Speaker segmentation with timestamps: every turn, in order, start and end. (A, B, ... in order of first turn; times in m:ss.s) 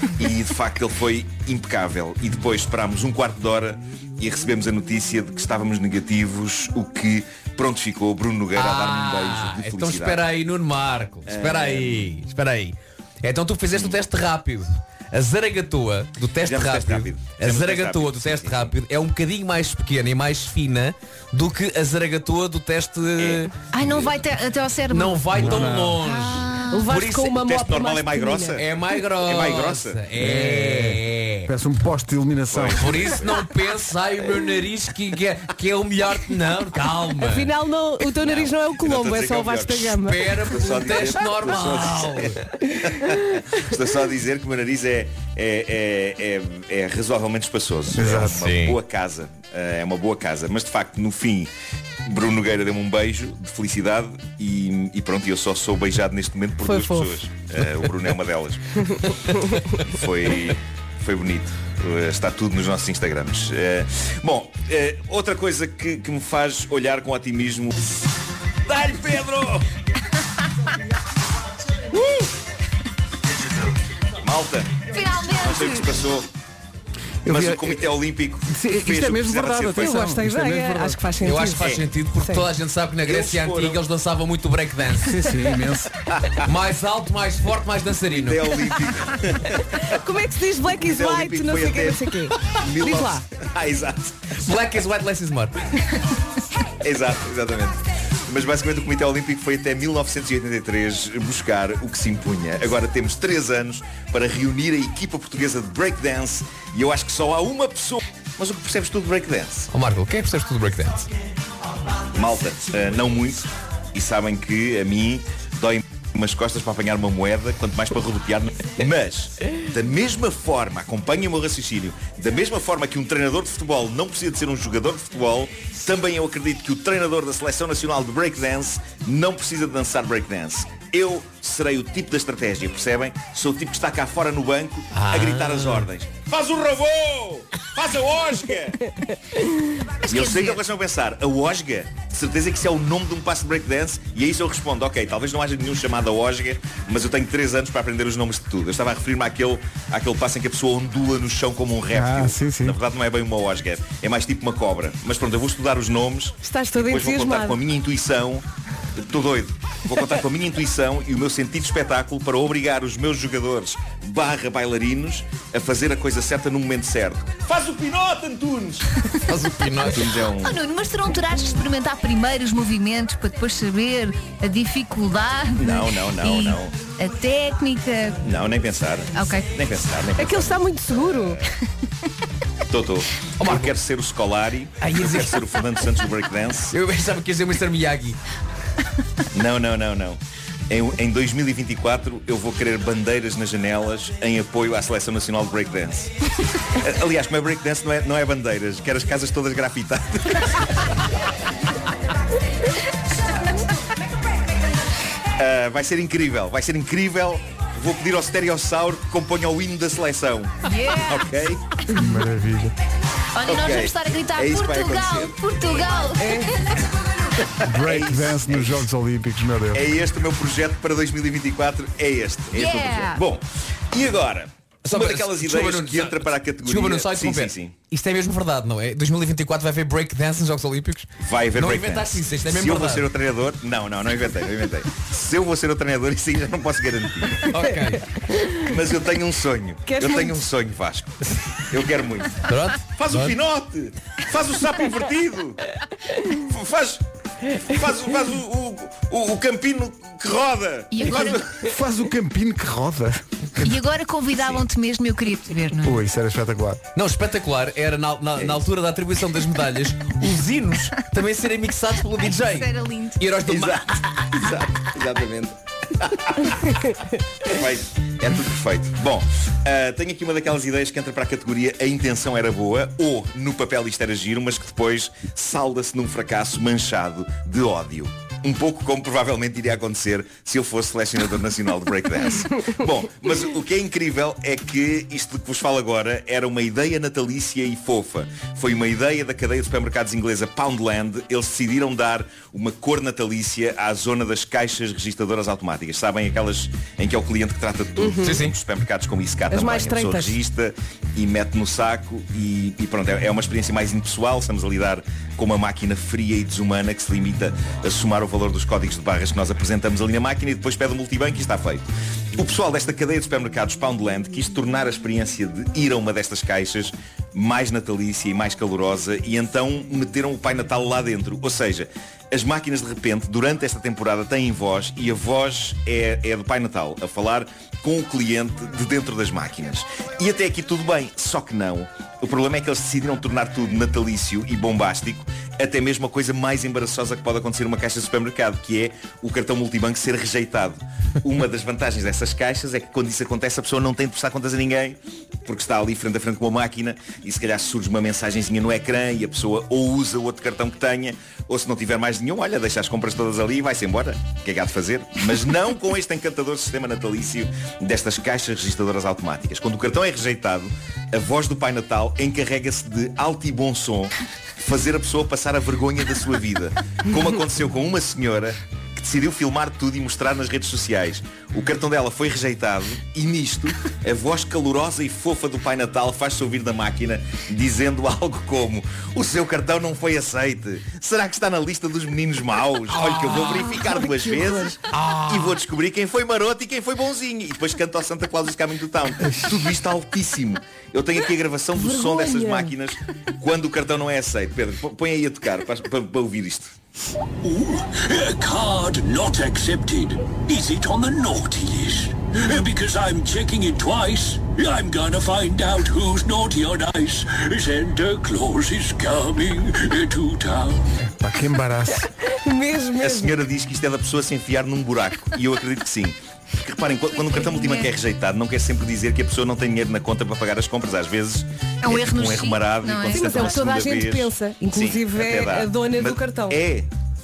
0:00.2-0:10.2 A
0:08.5-0:23.5 B
0:11.3-0:12.2 A
0:13.7-0:14.0 A
0:16.4-0:18.7 A
0:23.2-0:24.2 A
0:23.7-0:26.9 C
0:24.9-0:27.4 B
0:25.3-0:26.1 D
0:26.7-0:28.6 E
0:27.4-0:28.6 A
0:28.6-0:31.5 B
0:29.2-0:30.0 A
0:30.1-0:33.0 D
0:32.5-0:33.4 A
0:32.7-0:37.5 B
0:37.2-0:40.6 E
0:38.2-0:40.0 A
0:39.9-0:42.4 B
0:40.5-0:51.5 A
0:47.9-0:48.5 D
0:48.2-0:48.8 B
0:52.1-0:58.8 A
0:56.6-0:57.2 E
0:59.8-1:07.9 A
1:08.7-1:09.7 A
1:14.2-1:16.3 A
1:14.9-1:16.0 C
1:17.2-1:21.1 D
1:17.3-1:20.0 A
1:19.8-1:22.5 E
1:21.2-1:25.3 B
1:21.6-1:21.9 A
1:23.0-1:23.8 A
1:25.0-1:25.9 D
1:26.2-1:26.5 A
1:26.4-1:28.6 B
1:28.1-1:29.8 A
1:29.8-1:33.2 E
1:30.8-1:34.4 A
1:34.4-1:35.6 B
1:36.8-1:49.7 A
1:49.7-1:51.1 B
1:52.1-2:18.8 A
2:14.9-2:15.9 B
2:20.0-2:20.6 C
2:20.1-2:38.4 A
2:31.9-2:32.8 D
2:36.4-2:37.6 E
2:39.0-2:48.9 A
2:49.3-2:50.1 B
2:49.9-2:50.6 A
2:50.4-2:58.2 C
2:55.6-2:56.8 A
2:58.2-3:00.6 A
2:59.1-2:59.5 C
3:00.2-3:01.4 E
3:02.7-3:06.7 A
3:03.4-3:03.8 B
3:04.8-3:05.5 B
3:06.7-3:08.2 B
3:09.3-3:10.2 A
3:10.7-3:16.1 A
3:16.8-3:20.5 A
3:25.4-3:31.6 A
3:30.6-3:31.3 C
3:31.9-3:32.7 D
3:33.4-3:36.5 C
3:33.4-3:35.4 A
3:36.2-3:36.5 E
3:37.6-3:39.8 D
3:37.8-3:38.8 A
3:39.7-3:47.8 A
3:42.5-3:43.2 C
3:44.8-3:53.1 B
3:51.2-3:57.5 A
3:57.5-3:58.0 B
3:58.3-3:58.6 E
3:58.6-4:05.6 A
3:59.9-4:00.4 E
4:02.5-4:03.4 B
4:06.3-4:11.6 A
4:10.9-4:11.4 C
4:11.6-4:13.8 D
4:13.6-4:16.0 C
4:15.8-4:16.8 D
4:17.0-4:24.0 B
4:22.1-4:23.2 C
4:23.5-4:26.7 A
4:27.4-6:36.7 A
4:58.0-4:58.4 E
4:58.2-4:58.6 B
4:59.5-5:00.4 E
6:22.9-6:23.7 B
6:24.0-6:24.8 E
6:24.9-6:25.6 B
6:31.8-6:32.7 E
6:37.4-6:50.9 F
6:51.0-6:52.1 D
6:52.2-6:53.3 E
6:53.0-7:06.9 A
6:57.1-6:57.9 C
7:01.8-7:03.7 C
7:03.1-7:06.6 E